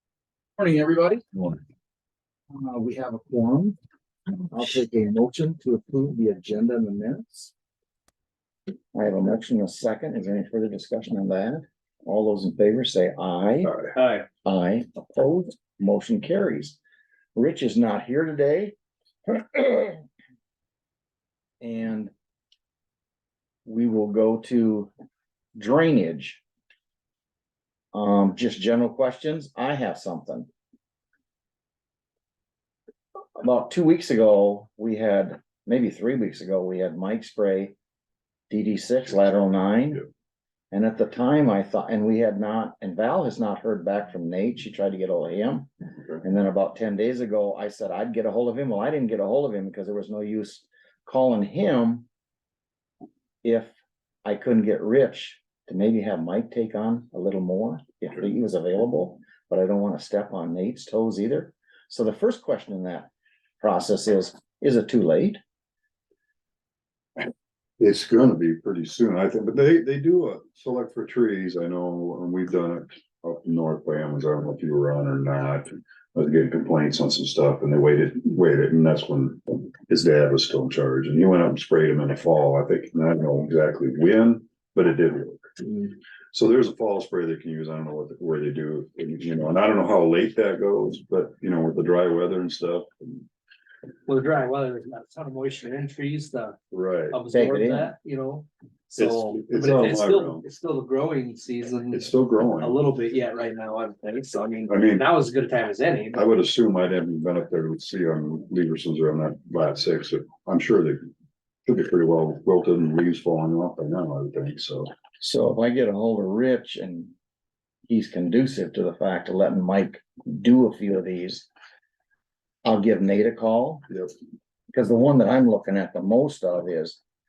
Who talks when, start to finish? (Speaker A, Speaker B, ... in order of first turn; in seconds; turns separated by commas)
Speaker A: 0.6-1.2, Speaker A: 2.5-3.7, Speaker A: 4.5-7.5, Speaker A: 8.9-13.8, Speaker B: 13.6-13.9, Speaker C: 13.9-14.2, Speaker A: 14.4-16.8, Speaker A: 17.3-18.8, Speaker A: 19.3-20.0, Speaker A: 21.6-22.1, Speaker A: 23.6-24.9, Speaker A: 25.6-26.4, Speaker A: 27.9-30.5, Speaker A: 33.4-37.7, Speaker A: 38.5-40.0, Speaker A: 40.7-45.7, Speaker A: 46.2-52.1, Speaker A: 53.4-53.7, Speaker A: 54.2-63.1, Speaker A: 63.6-65.4, Speaker B: 67.8-85.5, Speaker B: 86.3-93.2, Speaker C: 94.1-96.6, Speaker B: 96.7-97.2, Speaker C: 97.1-106.2, Speaker A: 97.3-97.9, Speaker B: 99.0-100.4, Speaker B: 101.9-102.8, Speaker B: 104.7-105.1, Speaker B: 106.1-111.1, Speaker B: 111.7-114.9, Speaker A: 115.2-117.1, Speaker A: 117.9-121.5, Speaker A: 122.6-123.8, Speaker A: 124.7-127.0